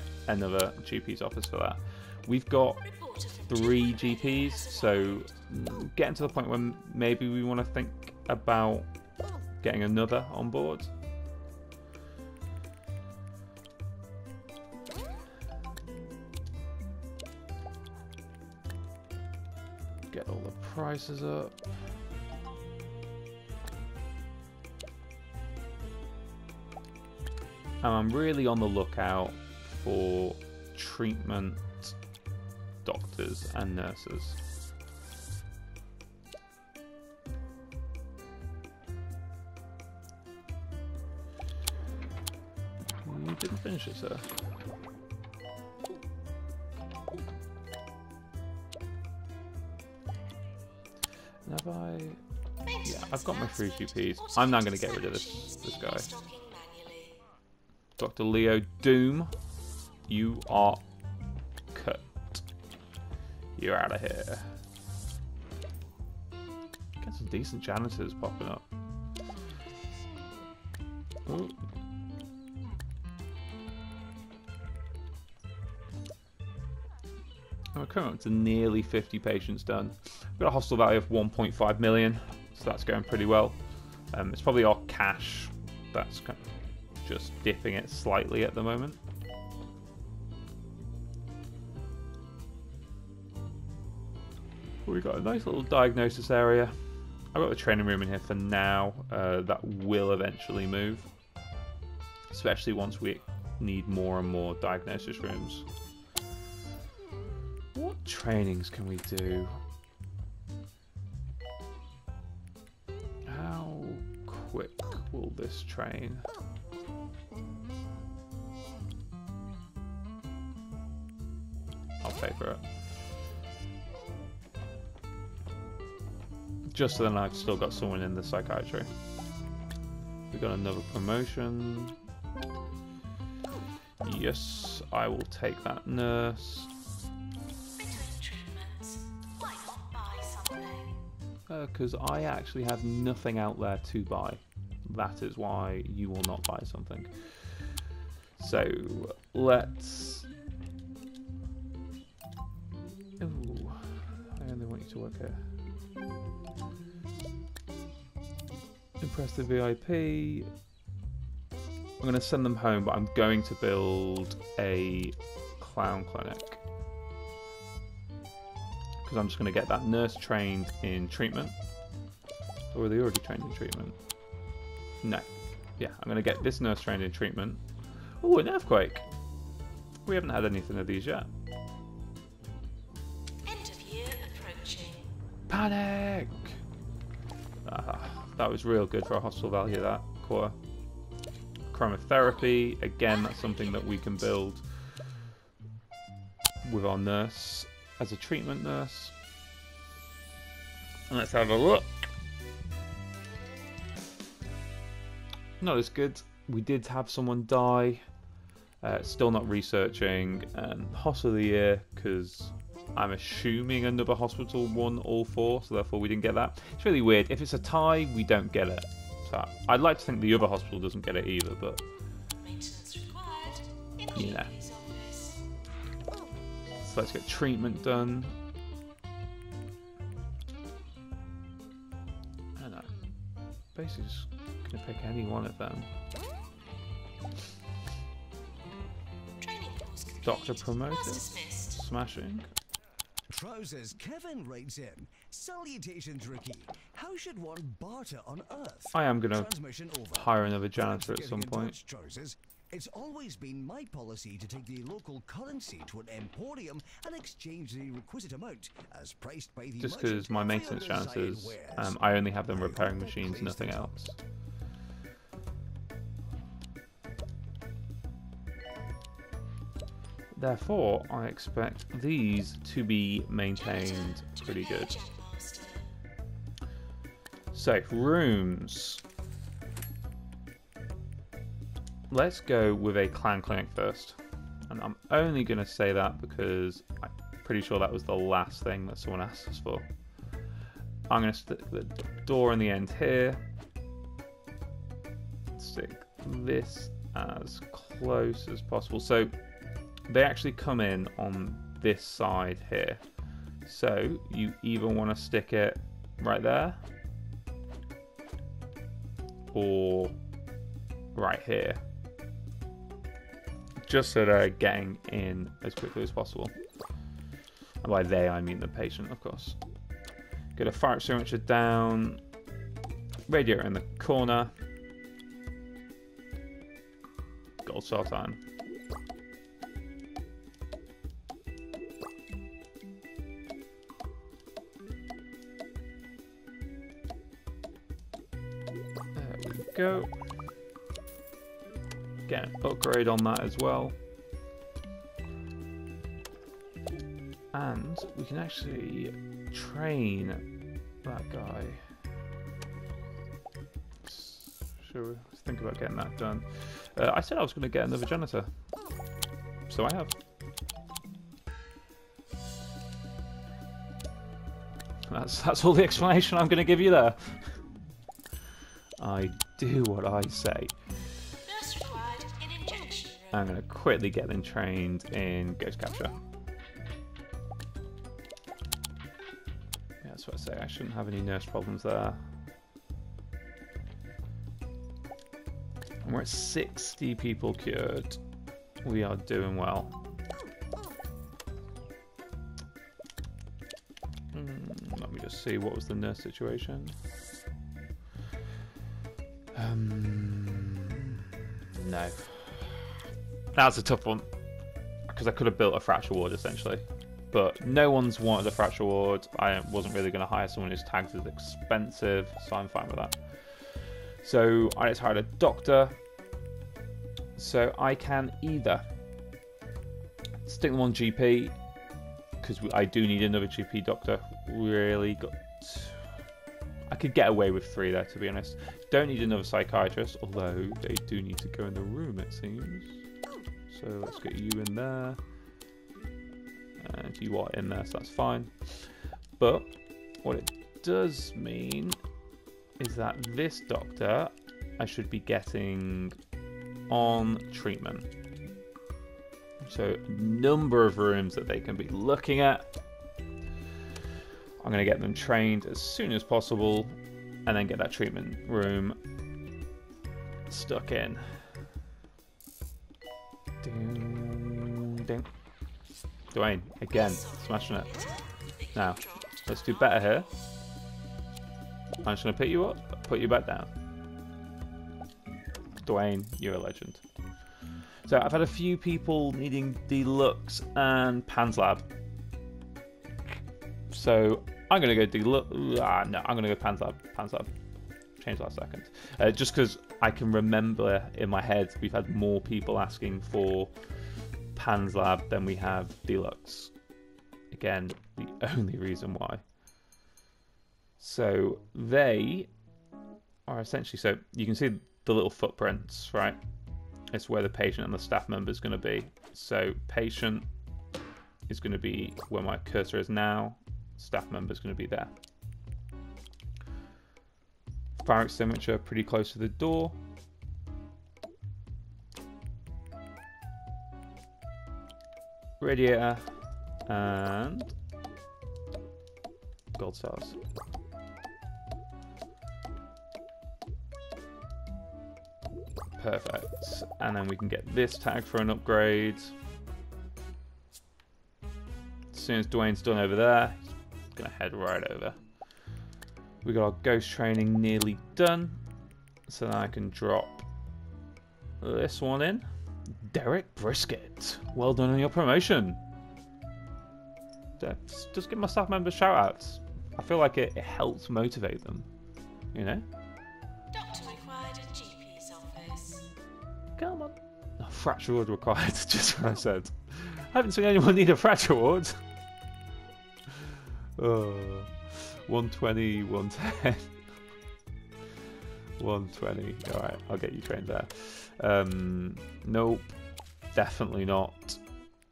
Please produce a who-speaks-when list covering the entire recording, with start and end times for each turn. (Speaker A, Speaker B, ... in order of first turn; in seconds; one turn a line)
Speaker A: 0.3-2.8
Speaker B: 2.9-5.3
Speaker A: 3.5-8.9
Speaker A: 9.6-10.9
Speaker A: 20.1-21.6
Speaker A: 27.8-32.0
Speaker A: 32.8-34.4
Speaker A: 43.0-44.3
Speaker A: 51.5-52.2
Speaker B: 52.6-57.2
Speaker A: 52.8-56.1
Speaker A: 58.0-59.3
Speaker A: 60.1-60.8
Speaker A: 61.7-62.5
Speaker A: 63.6-64.5
Speaker A: 67.0-68.7
Speaker A: 71.3-71.6
Speaker A: 77.7-83.6
Speaker A: 84.1-86.5
Speaker A: 87.0-89.0
Speaker A: 94.8-96.8
Speaker A: 97.3-101.1
Speaker A: 102.3-105.7
Speaker A: 107.7-109.6
Speaker A: 113.3-116.3
Speaker A: 122.0-122.6
Speaker A: 126.7-128.9
Speaker A: 130.3-132.0
Speaker A: 134.0-136.7
Speaker B: 137.8-141.0
Speaker A: 141.5-147.7
Speaker A: 148.4-150.3
Speaker A: 153.2-155.4
Speaker A: 159.0-160.5
Speaker A: 162.0-166.6
Speaker A: 169.0-171.5
Speaker A: 172.7-174.0
Speaker A: 175.0-177.6
Speaker A: 178.2-179.1
Speaker A: 180.1-181.3
Speaker B: 183.4-185.1
Speaker A: 185.5-186.6
Speaker A: 187.7-190.6
Speaker A: 191.7-194.6
Speaker B: 192.3-194.4
Speaker A: 196.6-199.1
Speaker A: 201.1-202.1
Speaker A: 205.6-208.0
Speaker A: 208.8-221.8
Speaker B: 222.4-225.4
Speaker A: 224.1-224.5
Speaker A: 226.8-228.3
Speaker A: 232.6-232.9
Speaker A: 233.7-235.9
Speaker B: 239.4-241.8
Speaker A: 240.2-242.5
Speaker C: 243.3-264.0
Speaker A: 248.9-249.5
Speaker A: 250.1-251.8
Speaker A: 259.8-264.2
Speaker A: 270.3-275.0
Speaker B: 273.6-275.9
Speaker A: 277.5-279.0
Speaker A: 282.1-284.2
Speaker A: 284.7-289.9
Speaker A: 291.1-293.4
Speaker A: 295.6-299.3
Speaker A: 300.1-303.0
Speaker A: 303.6-306.8
Speaker A: 309.5-310.1
Speaker A: 311.1-311.8
Speaker A: 313.8-316.6
Speaker A: 317.8-319.6
Speaker A: 320.6-322.2
Speaker A: 323.3-324.5
Speaker A: 327.6-328.4
Speaker A: 339.1-340.1
Speaker A: 342.3-343.9
Speaker A: 347.5-350.4
Speaker A: 351.0-351.8
Speaker A: 354.0-358.5
Speaker A: 359.7-360.1
Speaker A: 365.1-367.5
Speaker A: 369.0-370.8
Speaker B: 371.4-373.4
Speaker A: 373.3-376.1
Speaker A: 380.0-382.2
Speaker A: 386.0-388.2
Speaker A: 388.8-390.0
Speaker A: 394.3-397.0
Speaker A: 399.5-402.9
Speaker A: 403.5-404.3
Speaker A: 405.1-416.0
Speaker A: 417.4-418.9
Speaker A: 420.4-421.5
Speaker A: 422.4-426.0
Speaker A: 426.9-433.0
Speaker A: 433.7-435.2
Speaker A: 436.8-442.0
Speaker A: 442.8-446.2
Speaker A: 446.9-448.1
Speaker A: 449.6-452.7
Speaker A: 454.6-456.9
Speaker A: 457.5-459.0
Speaker A: 460.5-461.4
Speaker A: 463.6-465.3
Speaker A: 466.3-468.2
Speaker B: 466.9-470.2
Speaker A: 468.8-470.3
Speaker A: 472.0-473.7
Speaker A: 475.8-477.0
Speaker A: 478.0-481.9
Speaker A: 483.9-487.5
Speaker A: 488.2-493.7
Speaker A: 494.6-496.7
Speaker A: 497.5-499.4
Speaker A: 501.0-502.5
Speaker A: 503.5-506.4
Speaker A: 507.1-510.5
Speaker A: 511.5-515.1
Speaker A: 518.0-520.0
Speaker A: 525.6-526.3
Speaker A: 526.9-527.7
Speaker A: 529.8-530.4
Speaker A: 536.0-539.4
Speaker A: 542.1-545.2
Speaker A: 546.4-548.6
Speaker A: 549.3-550.5
Speaker A: 551.6-552.5
Speaker A: 553.0-555.8
Speaker A: 557.6-561.9
Speaker A: 562.5-562.9
Speaker B: 563.7-566.1
Speaker A: 566.8-572.0
Speaker A: 574.0-576.9
Speaker A: 578.8-583.0
Speaker A: 583.5-584.6